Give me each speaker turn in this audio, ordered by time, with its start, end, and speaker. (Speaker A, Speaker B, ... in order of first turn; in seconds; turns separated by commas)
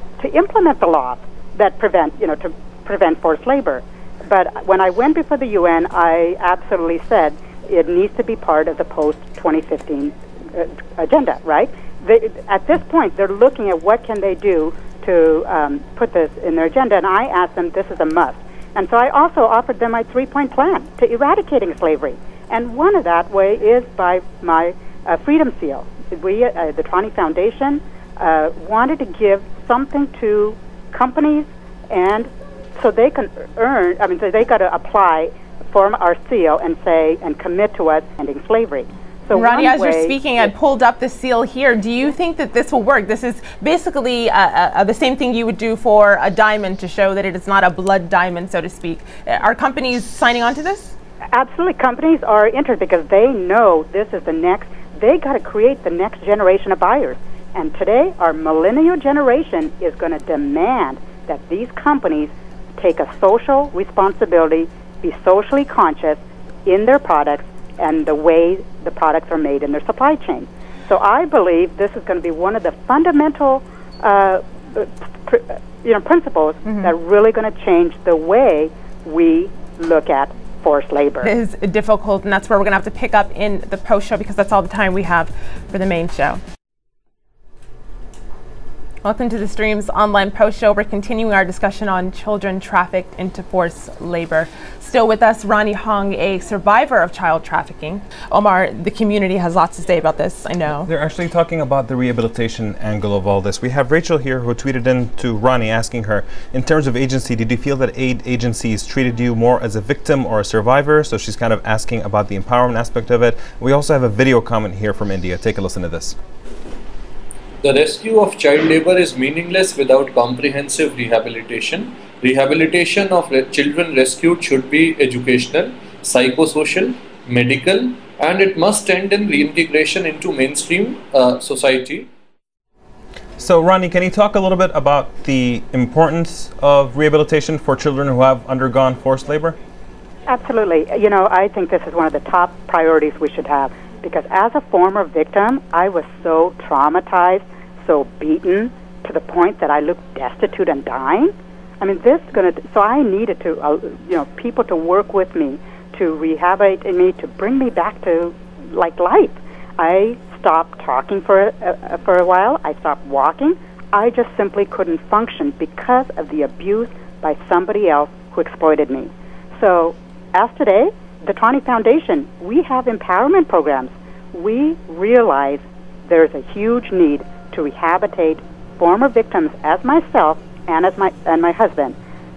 Speaker A: 0.2-40.5, Speaker B: 39.3-50.9, Speaker A: 51.3-81.3, Speaker B: 76.7-76.9, Speaker B: 81.2-86.4, Speaker B: 89.0-100.9, Speaker C: 100.8-116.2, Speaker D: 117.6-132.1, Speaker C: 133.4-139.6, Speaker A: 140.3-181.9